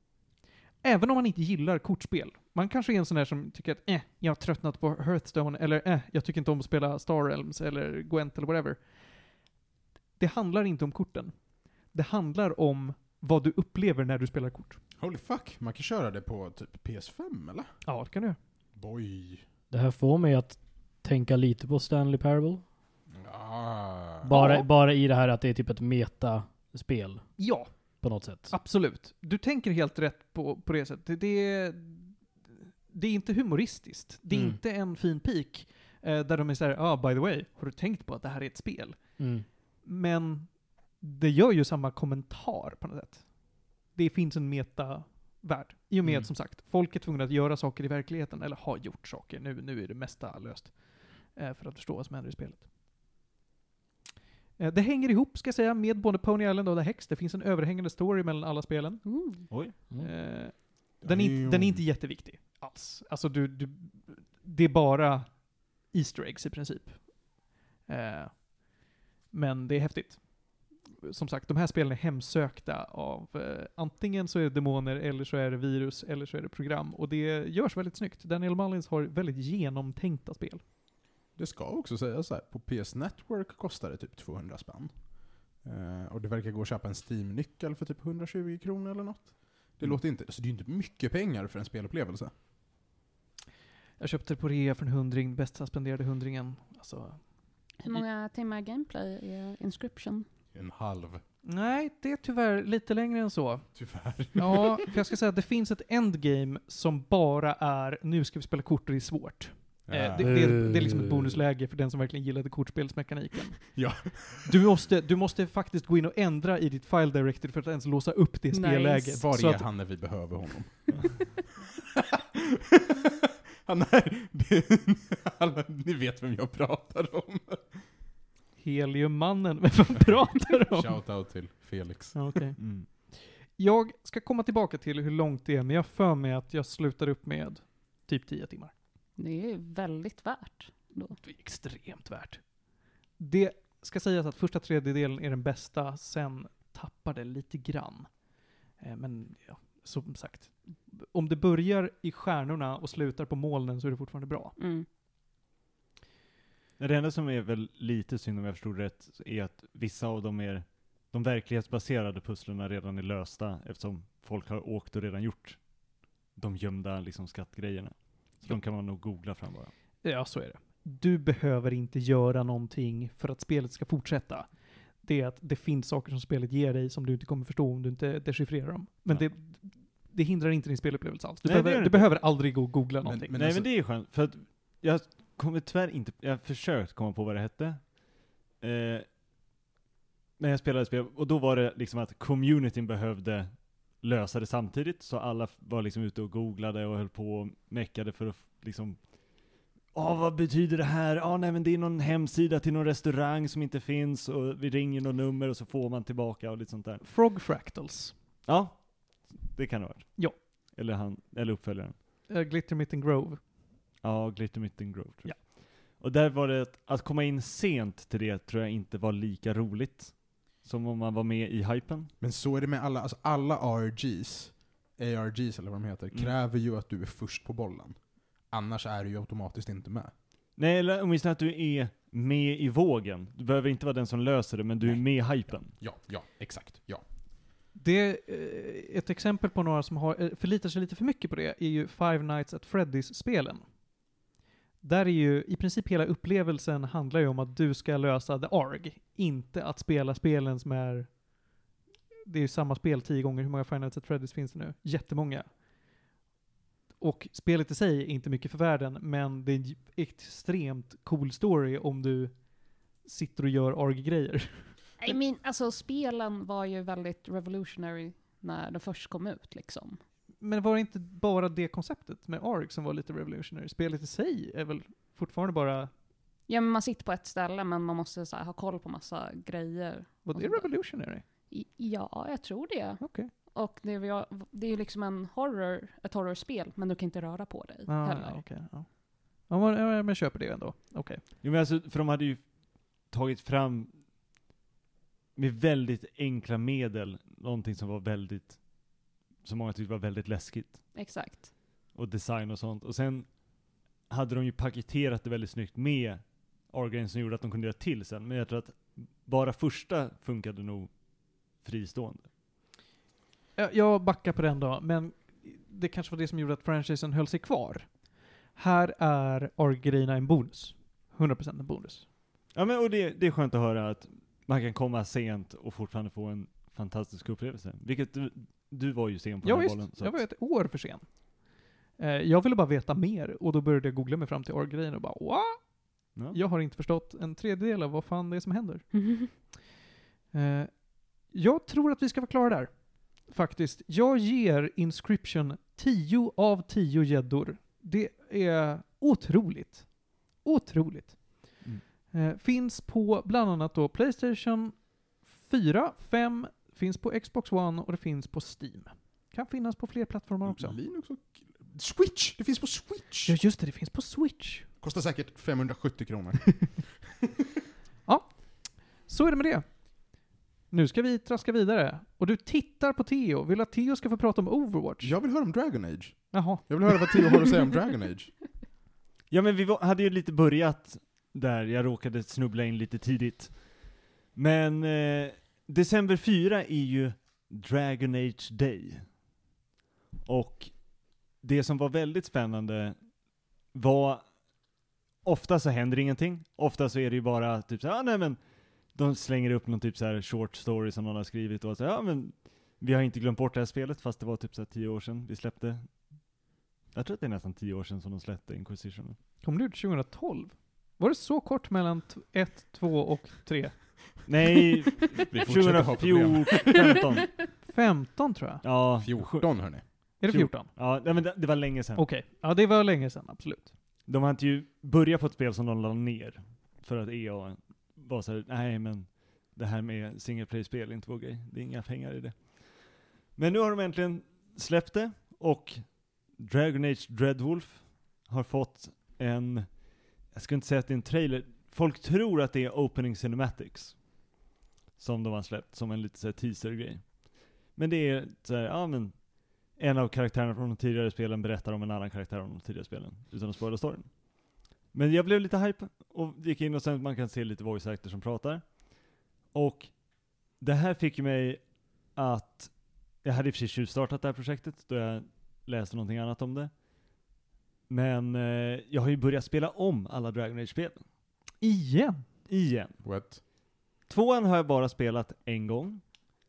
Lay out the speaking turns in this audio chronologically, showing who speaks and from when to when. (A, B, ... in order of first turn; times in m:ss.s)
0:00.8-0:08.8 A
0:10.2-0:11.3 A
0:11.9-0:14.8 A
0:15.0-0:17.7 B
0:17.8-0:18.4 A
0:18.8-0:19.4 B
0:19.7-0:22.6 C
0:23.2-0:24.4 B
0:24.2-0:27.3 C
0:24.3-0:24.7 A
0:27.4-0:27.7 A
0:28.0-0:28.5 C
0:28.5-0:32.2 A
0:32.9-0:39.2 A
0:34.3-0:34.6 C
0:39.2-0:39.5 C
0:39.8-0:43.3 A
0:43.9-0:52.6 A
0:54.6-1:07.3 A
0:59.0-0:59.5 D
1:01.0-1:01.8 B
1:07.9-1:20.6 A
1:21.4-1:32.3 B
1:34.0-1:37.3 A
1:37.8-1:40.2 D
1:40.5-1:41.2 B
1:41.4-1:43.7 A
1:43.8-1:44.8 B
1:44.4-1:59.6 A
1:49.9-1:50.3 B
1:50.2-1:51.4 C
1:53.7-1:54.5 B
1:58.5-1:59.2 D
1:59.2-2:01.2 B
2:02.4-2:03.1 B
2:03.7-2:07.8 B
2:08.6-2:11.0 A
2:10.7-2:12.4 B
2:12.1-2:18.7 A
2:12.6-2:12.9 E
2:19.2-2:21.2 D
2:21.2-2:22.4 A
2:23.2-2:28.1 A
2:28.8-2:34.6 A
2:34.6-2:34.9 D
2:36.8-2:45.6 E
2:46.4-2:49.7 E
2:50.0-2:54.5 A
2:55.0-3:03.3 A
3:01.4-3:02.2 E
3:03.0-3:03.7 B
3:03.3-3:08.0 E
3:08.6-3:09.1 E
3:10.4-3:27.0 E
3:27.0-3:28.1 A
3:28.5-3:32.0 E
3:32.3-3:33.4 A
3:34.0-3:42.1 E
3:42.2-3:48.0 B
3:48.5-3:50.1 B
3:50.6-3:55.7 E
3:55.7-3:57.0 B
3:57.8-4:03.6 A
4:04.8-4:11.2 A
4:12.3-4:15.5 A
4:17.0-4:22.4 A
4:23.0-4:24.8 A
4:25.0-4:30.0 D
4:30.4-4:35.9 A
4:36.5-4:40.8 D
4:40.2-4:41.2 A
4:41.5-4:48.4 D
4:43.0-4:43.3 A
4:47.9-4:48.9 A
4:49.4-4:51.2 A
4:51.4-4:52.5 E
4:53.1-4:53.9 E
4:55.4-4:58.6 E
4:59.4-5:00.8 E
5:00.9-5:01.5 D
5:02.0-5:03.3 E
5:04.1-5:10.9 E
5:11.6-5:12.3 E
5:13.6-5:17.9 A
5:18.6-5:22.0 A
5:22.5-5:30.2 E
5:29.4-5:31.1 A
5:32.0-5:38.9 A
5:38.9-5:39.3 D
5:40.3-5:51.6 A
5:52.1-6:00.8 A
6:00.5-6:03.4 B
6:03.3-6:04.7 A
6:04.8-6:06.8 B
6:08.1-6:10.2 A
6:10.7-6:15.1 A
6:15.0-6:18.3 B
6:16.3-6:17.2 A
6:19.3-6:29.1 E
6:30.3-6:30.7 E
6:31.4-6:33.0 E
6:33.7-6:34.2 E
6:35.2-6:38.4 E
6:38.9-6:45.9 E
6:46.9-6:49.2 E
6:49.4-6:54.3 A
6:54.3-6:57.3 E
6:55.2-6:57.0 B
6:57.7-6:58.6 A
6:58.6-7:02.0 E
6:59.0-6:59.8 B
7:00.2-7:00.7 A
7:02.0-7:03.7 A
7:04.1-7:12.7 E
7:13.4-7:15.8 E
7:16.4-7:19.8 E
7:20.3-7:24.0 E
7:25.0-7:29.2 E
7:29.7-7:34.1 E
7:34.9-7:38.7 E
7:39.5-7:39.9 E
7:40.6-7:41.6 E
7:42.2-7:42.7 E
7:43.2-7:46.7 E
7:47.9-7:51.0 E
7:51.6-7:52.2 A
7:52.5-7:53.0 E
7:53.0-7:53.4 B
7:54.1-7:56.0 E